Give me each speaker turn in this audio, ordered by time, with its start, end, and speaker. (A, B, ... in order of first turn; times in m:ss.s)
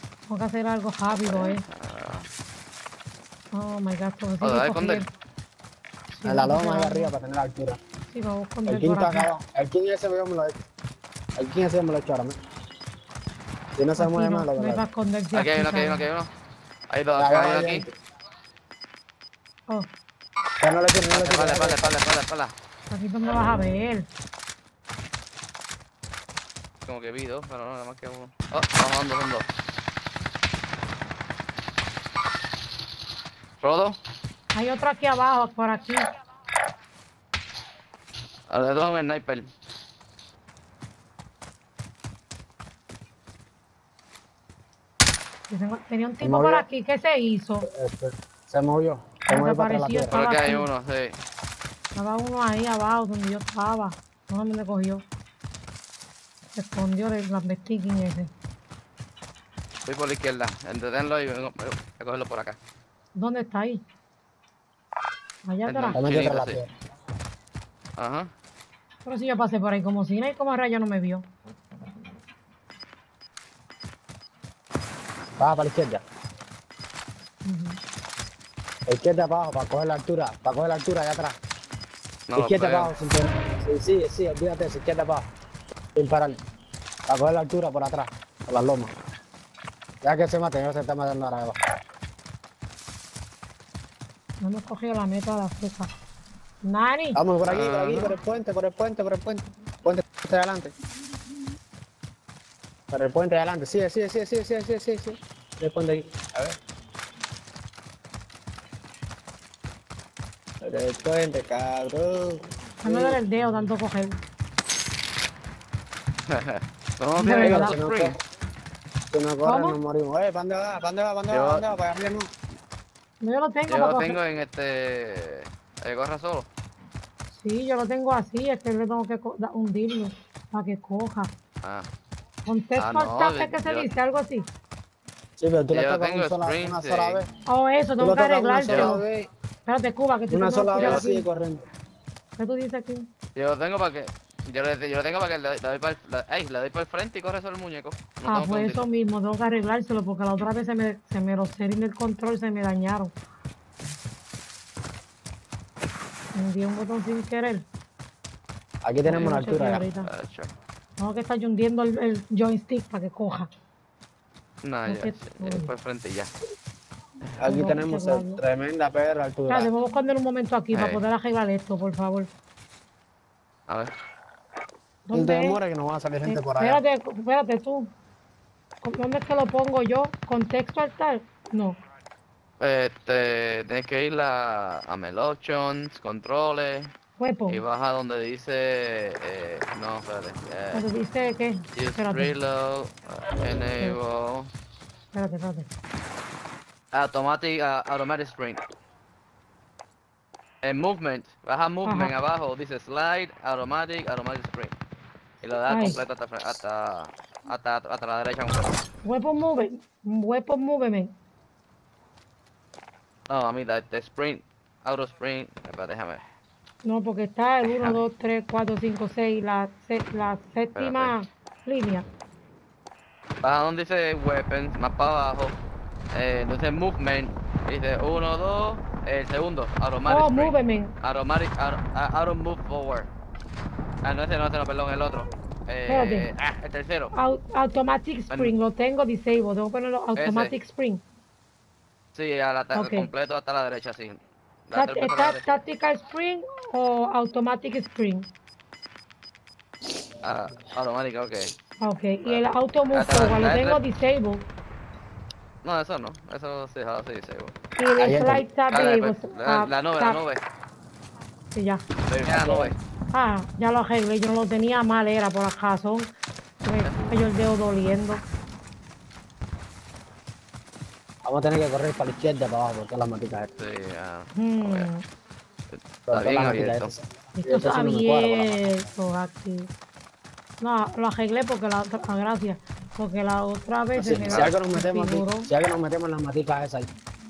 0:00.3-0:01.6 A
0:01.3-0:02.3 B
0:03.6-0:05.1 A
0:04.4-0:05.0 B
0:06.1-0:07.1 A
0:06.3-0:07.8 C
0:08.1-0:09.3 A
0:08.7-0:10.6 C
0:11.4-0:12.4 C
0:13.8-0:14.8 C
0:14.0-0:16.0 A
0:15.3-0:16.3 B
0:16.9-0:17.9 B
0:17.2-0:17.9 C
0:20.6-0:21.9 C
0:21.1-0:22.5 B
0:22.9-0:24.1 A
0:26.9-0:29.4 B
0:33.6-0:34.0 B
0:34.6-0:36.1 A
0:38.5-0:39.5 B
0:45.5-0:47.7 A
0:46.2-0:46.6 C
0:47.7-0:50.2 C
0:49.3-0:50.7 A
0:50.1-0:51.2 B
0:52.0-0:55.0 A
0:56.6-0:58.3 A
0:59.9-1:02.6 B
1:03.2-1:03.8 A
1:05.5-1:06.0 A
1:05.7-1:06.6 B
1:05.9-1:06.7 C
1:08.0-1:08.3 B
1:09.0-1:11.2 A
1:15.4-1:16.0 C
1:17.4-1:17.8 A
1:18.9-1:21.4 C
1:22.3-1:22.9 B
1:22.4-1:25.3 C
1:26.0-1:26.4 C
1:27.1-1:28.9 C
1:30.0-1:31.6 C
1:34.4-1:35.9 A
1:36.7-1:37.2 A
1:37.1-1:40.7 C
1:37.4-1:38.1 B
1:42.9-1:46.6 C
1:50.6-1:53.2 C
1:52.8-1:54.2 A
1:56.3-1:58.2 B
1:57.2-1:57.8 A
1:57.3-1:58.2 C
1:59.1-2:02.3 C
1:59.4-1:59.8 A
2:01.3-2:01.7 B
2:03.2-2:04.2 A
2:03.7-2:06.4 B
2:07.4-2:11.3 A
2:12.5-2:14.4 A
2:12.8-2:13.9 B
2:15.4-2:17.3 C
2:15.7-2:17.2 B
2:17.5-2:19.0 A
2:18.0-2:19.3 C
2:18.7-2:19.0 B
2:19.7-2:21.3 A
2:20.3-2:21.6 C
2:22.4-2:23.1 A
2:23.4-2:28.9 B
2:28.2-2:33.1 A
2:36.4-2:37.6 A
2:38.8-2:39.8 C
2:39.1-2:40.1 A
2:40.0-2:40.5 B
2:41.0-2:43.5 A
2:44.6-2:46.3 B
2:44.9-2:45.7 A
2:47.4-2:48.4 A
2:47.4-2:49.7 C
2:49.5-2:52.3 A
2:50.7-2:51.0 B
2:55.1-2:55.6 A
2:55.1-2:56.8 C
2:56.2-2:57.9 A
2:58.8-3:01.8 A
3:02.6-3:06.9 B
3:07.2-3:07.6 A
3:07.5-3:10.8 B
3:10.7-3:12.3 A
3:11.8-3:14.5 B
3:15.1-3:15.7 A
3:16.9-3:18.6 B
3:20.6-3:24.7 B
3:21.8-3:22.1 A
3:25.4-3:28.7 B
3:25.7-3:26.0 A
3:29.0-3:31.1 A
3:33.3-3:36.2 B
3:36.9-3:42.0 A
3:37.7-3:38.0 B
3:40.8-3:41.1 B
3:43.4-3:45.5 B
3:46.1-3:53.1 B
3:50.1-3:50.9 A
3:54.0-3:57.1 B
3:55.9-3:56.3 A
3:57.1-4:01.0 A
4:00.2-4:00.5 B
4:02.1-4:05.6 B
4:02.7-4:03.1 A
4:04.7-4:08.3 A
4:10.2-4:11.5 B
4:11.8-4:14.4 A
4:12.2-4:13.8 B
4:15.6-4:17.5 B
4:17.8-4:20.2 A
4:18.0-4:18.5 C
4:18.7-4:20.4 B
4:21.6-4:21.8 A
4:22.1-4:22.8 B
4:22.2-4:22.7 C
4:23.1-4:26.1 A
4:26.6-4:28.2 A
4:31.2-4:33.5 C
4:33.6-4:34.9 B
4:34.4-4:35.0 A
4:35.7-4:36.9 B
4:36.1-4:38.7 C
4:37.4-4:39.7 A
4:40.6-4:45.5 A
4:44.0-4:46.9 C